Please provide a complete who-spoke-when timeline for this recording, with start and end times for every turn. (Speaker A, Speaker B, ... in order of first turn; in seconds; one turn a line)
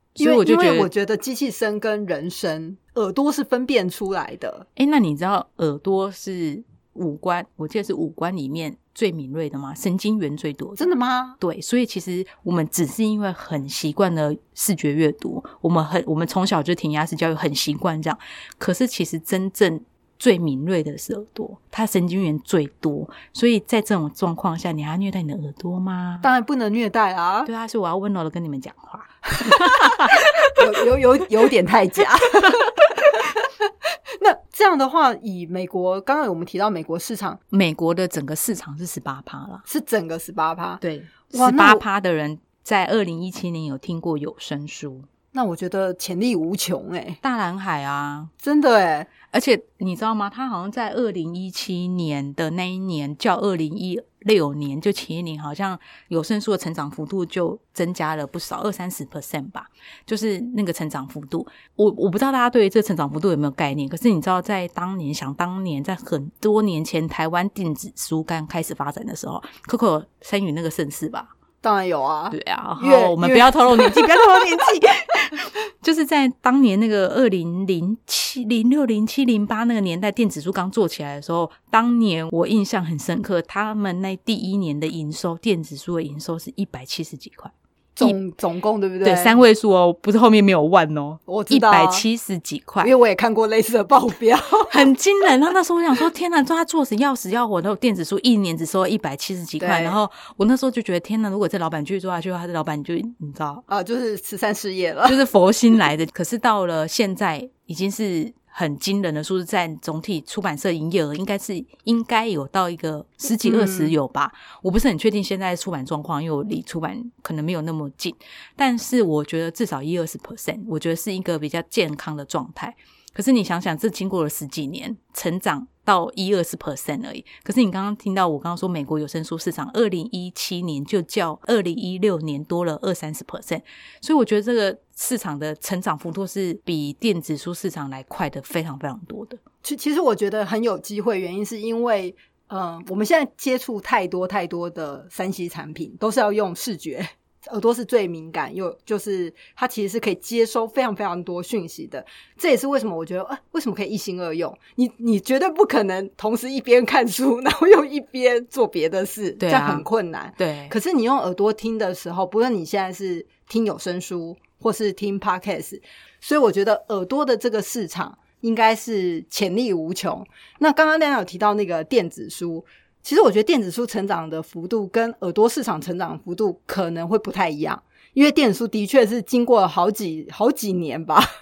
Speaker A: 0.1-0.9
Speaker B: 0.2-4.7
Speaker A: 4.8-10.8
Speaker B: 10.8-11.4
Speaker A: 11.4-26.3
Speaker B: 26.2-27.5
Speaker A: 27.4-30.6
Speaker B: 29.4-37.4
Speaker A: 37.5-39.6
Speaker B: 39.7-40.8
Speaker A: 40.8-45.1
Speaker B: 41.3-41.8
Speaker B: 45.3-47.2
Speaker A: 47.2-48.3
Speaker B: 48.4-49.1
Speaker A: 49.3-71.3
Speaker B: 71.6-74.5
Speaker A: 72.3-88.2
Speaker B: 88.0-89.4
Speaker A: 89.0-92.9
Speaker B: 91.3-92.0
Speaker B: 92.8-94.7
Speaker A: 94.7-103.6
Speaker B: 99.6-100.0
Speaker B: 103.7-105.2
Speaker A: 105.1-139.4
Speaker B: 113.4-113.9
Speaker B: 139.6-181.3
Speaker A: 159.4-159.8
Speaker A: 160.4-160.7